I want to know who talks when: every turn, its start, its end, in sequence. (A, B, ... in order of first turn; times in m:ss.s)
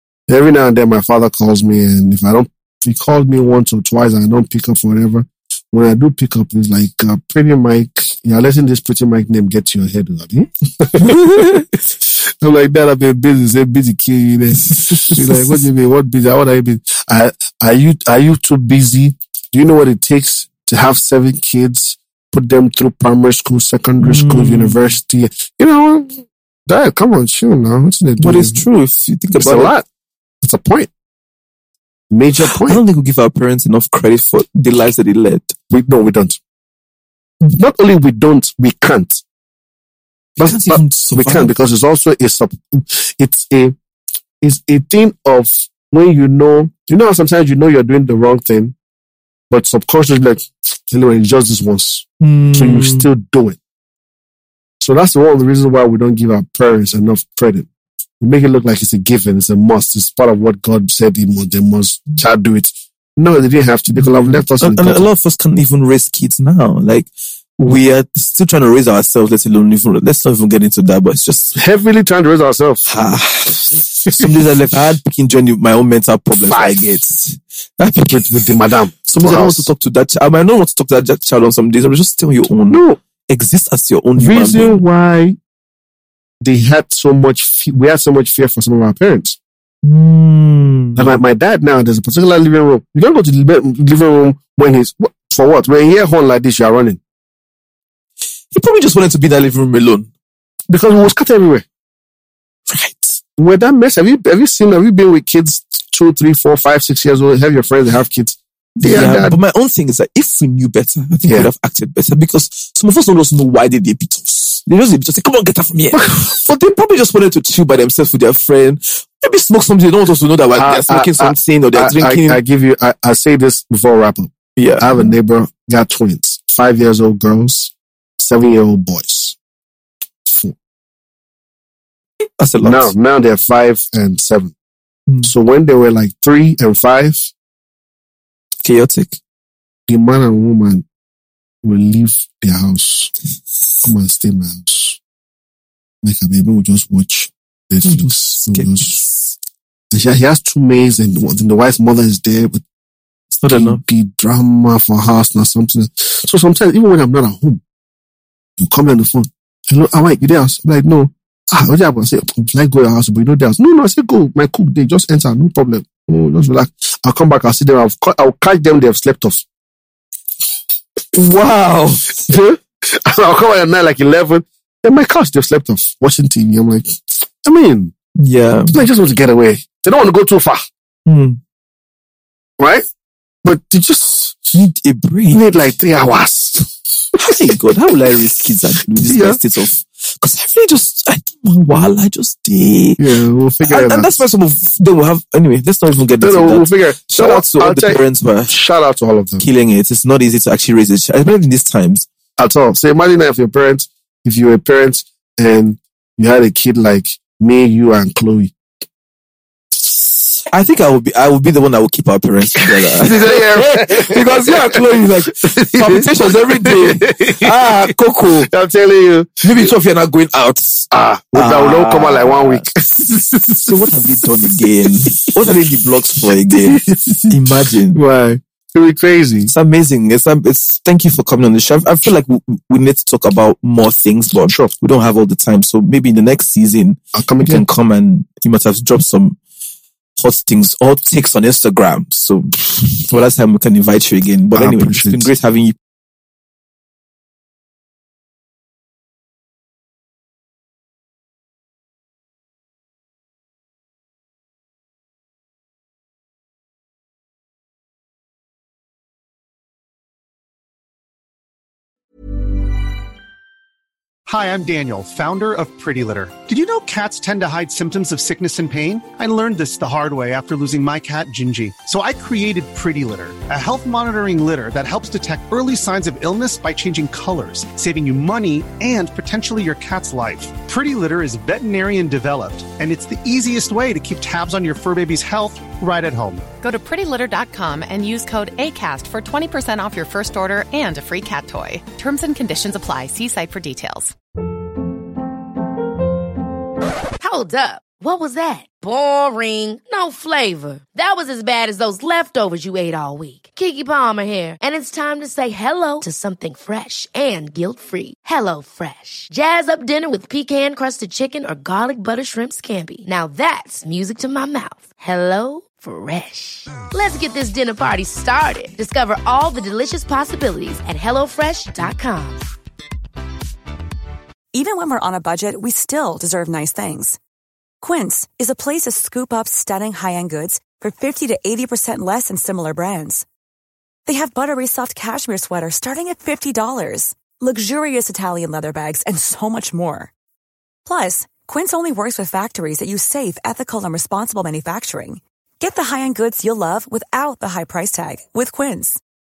0:00.3-0:28.6 A
0:11.0-0:11.7 B
0:14.6-0:15.6 B
0:24.0-0:25.0 B
0:28.2-0:29.7 B
0:29.4-0:29.8 A
0:30.4-0:30.9 A
0:32.1-0:32.8 A
0:32.5-0:35.6 B
0:35.7-0:36.4 A
0:37.4-0:39.2 A
0:40.4-0:43.8 A
0:40.4-0:41.5 B
0:44.4-0:48.7 A
0:49.5-0:53.6 A
0:52.2-0:53.1 B
0:54.8-0:57.7 A
0:58.2-1:05.1 A
1:04.0-1:11.6 B
1:11.6-1:12.9 A
1:12.9-1:18.5 B
1:16.5-1:16.8 A
1:18.1-1:19.7 A
1:19.1-1:24.8 B
1:22.7-1:23.0 A
1:24.2-1:25.4 A
1:26.4-1:29.4 A
1:29.8-1:31.2 B
1:31.0-1:37.0 A
1:38.5-1:40.1 B
1:40.7-1:41.7 A
1:42.7-1:43.2 B
1:43.4-1:49.4 A
1:48.8-2:02.4 B
1:55.9-1:56.3 A
2:00.6-2:09.4 A
2:04.6-2:05.1 B
2:10.3-2:10.6 A
2:12.4-2:12.9 B
2:12.6-2:14.5 A
2:15.1-2:15.3 B
2:15.2-2:17.3 A
2:18.6-2:19.2 B
2:19.9-2:20.9 A
2:21.6-2:23.1 A
2:23.8-2:25.0 A
2:26.0-2:29.0 A
2:27.8-2:29.4 B
2:29.9-2:32.6 A
2:33.3-2:33.8 B
2:33.5-2:37.6 A
2:38.6-2:49.4 A
2:51.1-2:52.2 B
2:52.2-2:57.9 A
2:58.2-2:58.8 B
2:58.7-3:00.6 A
3:01.1-3:01.4 B
3:02.6-3:02.9 A
3:03.4-3:04.5 A
3:04.5-3:05.4 B
3:05.3-3:07.4 A
3:07.2-3:13.1 B
3:09.0-3:09.4 A
3:13.0-3:14.2 A
3:13.6-3:18.6 B
3:16.2-3:19.5 A
3:19.4-3:22.1 B
3:22.4-3:28.5 A
3:30.5-3:38.5 B
3:32.6-3:39.7 A
3:39.4-3:42.7 B
3:40.9-3:44.2 A
3:43.6-3:48.0 B
3:45.3-3:45.5 A
3:46.5-3:49.5 A
3:49.5-3:59.4 B
3:57.2-3:57.6 A
4:00.2-4:05.7 B
4:04.5-4:05.3 A
4:24.3-4:46.5 C
4:46.6-4:54.2 D
4:57.2-5:22.4 E
5:24.5-5:27.2 F
5:27.8-5:33.3 F
5:34.1-5:40.1 F
5:40.9-5:49.0 F